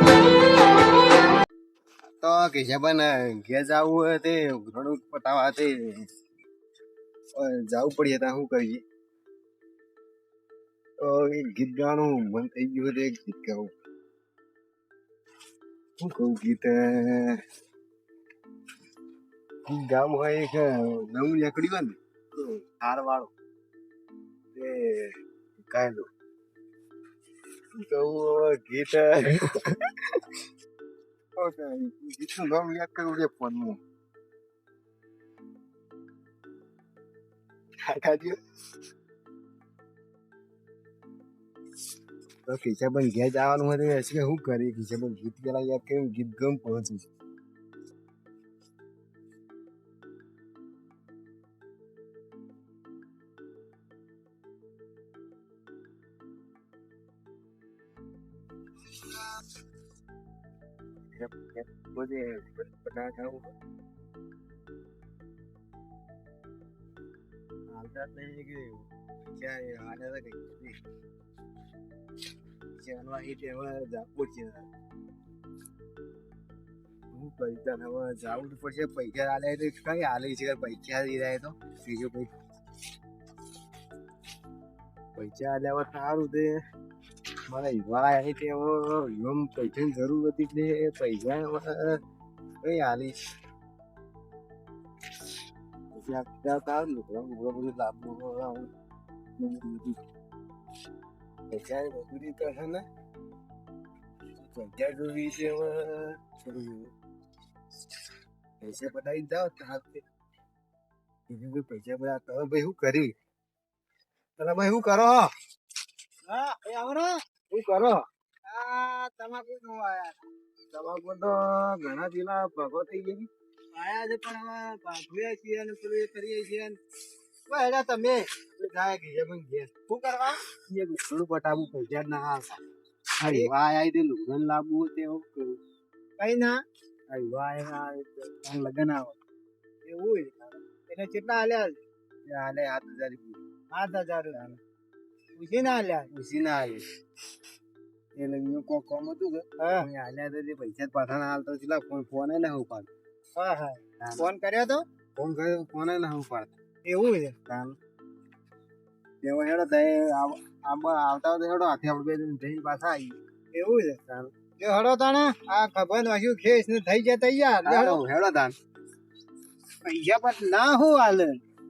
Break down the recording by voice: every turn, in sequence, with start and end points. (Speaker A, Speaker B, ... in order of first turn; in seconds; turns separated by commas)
Speaker A: 2.2-6.1, Speaker A: 7.3-8.8, Speaker A: 11.0-13.7, Speaker A: 16.0-17.4, Speaker A: 19.7-23.3, Speaker A: 24.6-25.1, Speaker A: 25.7-26.1, Speaker A: 27.8-29.8, Speaker A: 31.4-33.8, Speaker A: 37.8-38.4, Speaker A: 42.5-47.1, Speaker A: 61.1-63.5, Speaker A: 67.7-70.8, Speaker A: 72.8-74.7, Speaker A: 77.1-82.3, Speaker A: 85.2-86.6, Speaker A: 87.5-92.0, Speaker A: 92.6-93.2, Speaker A: 95.9-98.7, Speaker A: 99.4-100.0, Speaker A: 101.5-102.9, Speaker A: 104.4-106.9, Speaker A: 108.6-110.0, Speaker A: 111.3-113.1, Speaker A: 114.4-115.3, Speaker B: 116.3-117.2, Speaker A: 117.5-118.0, Speaker B: 118.5-120.2, Speaker A: 120.7-123.3, Speaker B: 123.7-126.8, Speaker B: 127.5-128.2, Speaker A: 128.1-129.7, Speaker B: 129.9-130.4, Speaker A: 130.7-132.6, Speaker A: 133.2-135.6, Speaker B: 133.2-133.5, Speaker B: 136.2-136.6, Speaker A: 137.1-139.1, Speaker B: 139.8-141.8, Speaker A: 142.3-143.4, Speaker B: 143.7-144.6, Speaker B: 145.3-146.1, Speaker A: 146.1-146.9, Speaker A: 148.2-152.9, Speaker B: 149.6-149.9, Speaker B: 153.4-154.8, Speaker A: 154.0-154.3, Speaker A: 155.2-156.5, Speaker B: 156.8-157.4, Speaker A: 157.5-157.8, Speaker A: 159.2-163.2, Speaker B: 163.5-164.0, Speaker A: 164.1-164.3, Speaker B: 164.6-168.0, Speaker A: 167.7-168.6, Speaker B: 169.8-171.4